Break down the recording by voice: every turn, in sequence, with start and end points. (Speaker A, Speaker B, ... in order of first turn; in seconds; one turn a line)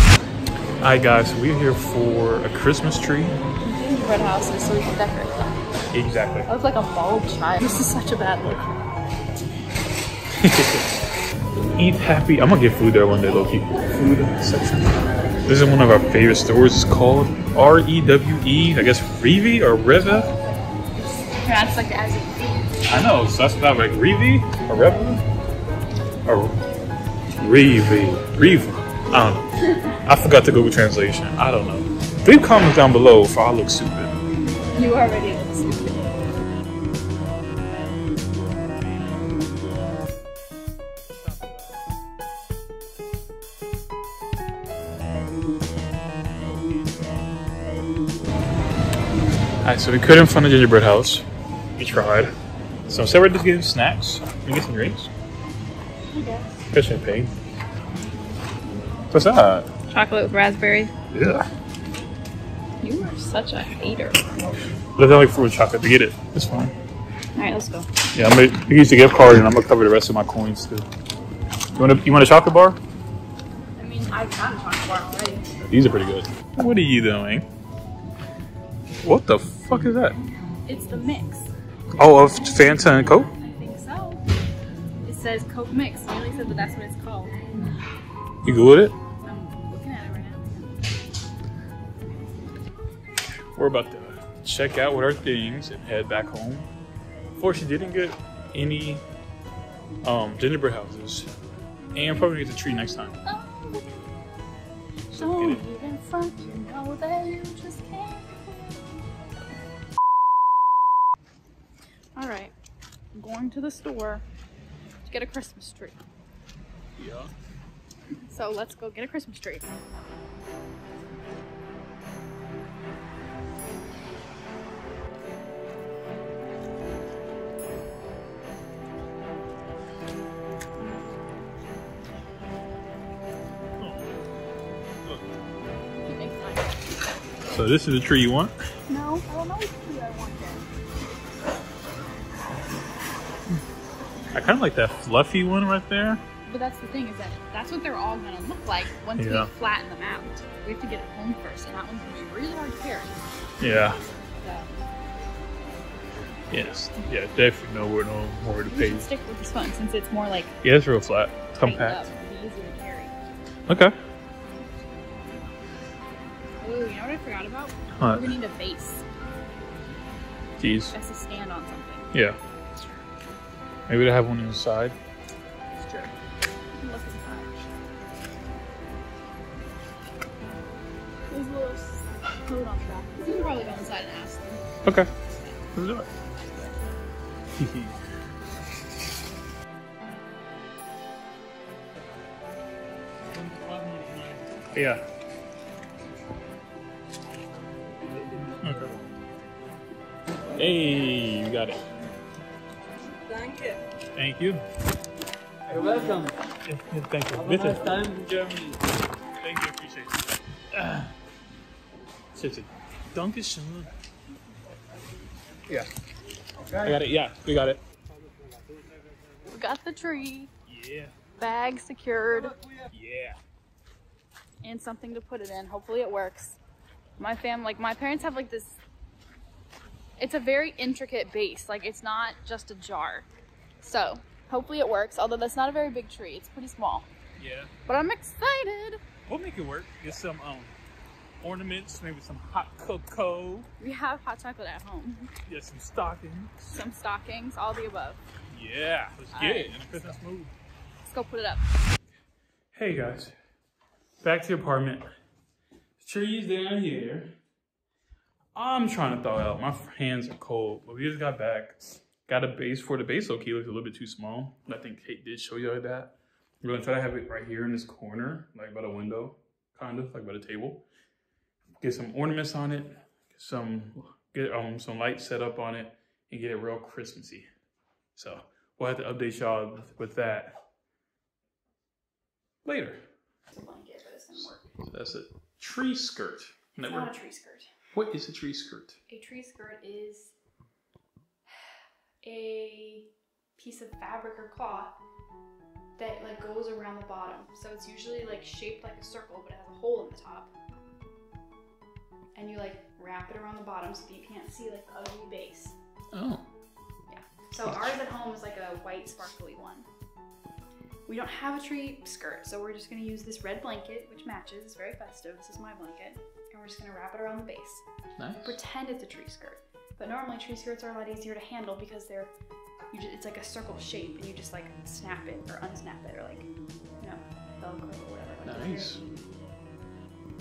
Speaker A: 0.8-3.4
Speaker B: 3.6-5.6
Speaker A: 5.9-6.5
Speaker B: 6.5-8.7
Speaker A: 10.3-10.9
Speaker A: 11.8-20.3
Speaker B: 20.7-22.7
Speaker A: 22.9-25.2
Speaker A: 26.2-26.6
Speaker A: 27.4-34.1
Speaker B: 34.7-36.1
Speaker A: 49.6-51.2
Speaker A: 51.8-52.3
Speaker A: 52.9-55.1
Speaker B: 56.1-56.6
Speaker A: 56.7-57.3
Speaker A: 59.1-59.7
Speaker B: 59.9-60.9
Speaker A: 61.1-61.5
Speaker B: 62.8-64.2
Speaker A: 65.0-66.7
Speaker B: 67.3-67.9
Speaker A: 68.1-70.9
Speaker A: 71.8-72.8
Speaker B: 73.8-75.5
Speaker A: 75.6-77.5
Speaker A: 79.0-80.2
Speaker B: 80.6-81.5
Speaker A: 82.0-83.3
Speaker B: 83.3-84.2
Speaker B: 85.0-87.4
Speaker A: 88.4-88.9
Speaker B: 89.2-90.8
Speaker A: 93.5-96.7
Speaker A: 97.4-99.0
Speaker A: 100.0-101.3
Speaker A: 101.9-103.2
Speaker B: 103.2-104.0
Speaker A: 105.1-105.6
Speaker B: 105.1-108.9
Speaker B: 112.1-112.5
Speaker B: 113.1-114.2
Speaker B: 115.0-116.0
Speaker A: 117.0-117.3
Speaker B: 118.2-119.6
Speaker B: 136.0-136.7
Speaker A: 137.5-138.5
Speaker B: 138.9-140.6
Speaker A: 144.3-146.2
Speaker B: 146.4-153.2
Speaker A: 149.2-149.5
Speaker A: 153.6-154.0
Speaker B: 154.4-154.7
Speaker A: 156.5-159.1
Speaker B: 158.7-160.6
Speaker A: 160.6-162.1
Speaker B: 161.6-163.1
Speaker A: 163.7-163.9
Speaker B: 166.6-169.0
Speaker A: 168.0-168.3
Speaker A: 170.6-170.9
Speaker B: 170.9-172.2
Speaker A: 173.9-175.0
Speaker B: 175.7-176.1
Speaker B: 176.7-177.7
Speaker B: 181.3-184.7
Speaker A: 184.8-185.1
Speaker A: 185.7-186.1
Speaker A: 187.6-188.0
Speaker C: 193.3-194.4
Speaker A: 194.7-195.0
Speaker A: 198.6-198.9
Speaker A: 200.5-201.8
Speaker C: 203.3-203.8
Speaker A: 204.2-204.6
Speaker C: 205.7-206.4
Speaker A: 206.6-208.0
Speaker C: 207.6-208.8
Speaker A: 209.4-211.1
Speaker A: 212.3-213.9
Speaker A: 216.8-217.8
Speaker B: 219.4-220.5
Speaker A: 220.7-221.1
Speaker B: 221.3-222.6
Speaker A: 222.9-223.4
Speaker B: 224.6-226.6
Speaker B: 227.2-228.8
Speaker B: 230.2-233.3
Speaker B: 233.8-237.1
Speaker A: 237.4-237.7
Speaker B: 237.8-239.0
Speaker A: 239.3-240.7
Speaker A: 241.4-243.7
Speaker B: 243.8-245.3
Speaker A: 245.5-246.6
Speaker B: 246.6-248.2
Speaker A: 248.5-250.5
Speaker B: 249.3-250.2
Speaker B: 251.0-251.7
Speaker A: 252.7-253.3
Speaker A: 254.2-255.1
Speaker A: 256.0-257.3
Speaker A: 258.5-270.8
Speaker A: 271.8-277.4
Speaker A: 278.1-280.6
Speaker A: 282.6-283.0
Speaker B: 283.5-284.7
Speaker A: 284.8-287.1
Speaker B: 286.8-287.7
Speaker A: 287.9-289.0
Speaker B: 289.1-290.3
Speaker B: 292.2-295.0
Speaker B: 296.0-300.5
Speaker B: 302.3-305.8
Speaker A: 306.1-306.5
Speaker B: 307.1-309.9
Speaker B: 311.1-317.8
Speaker A: 318.2-318.5
Speaker B: 318.4-322.3
Speaker B: 322.9-326.5
Speaker B: 327.0-329.1
Speaker A: 328.4-329.0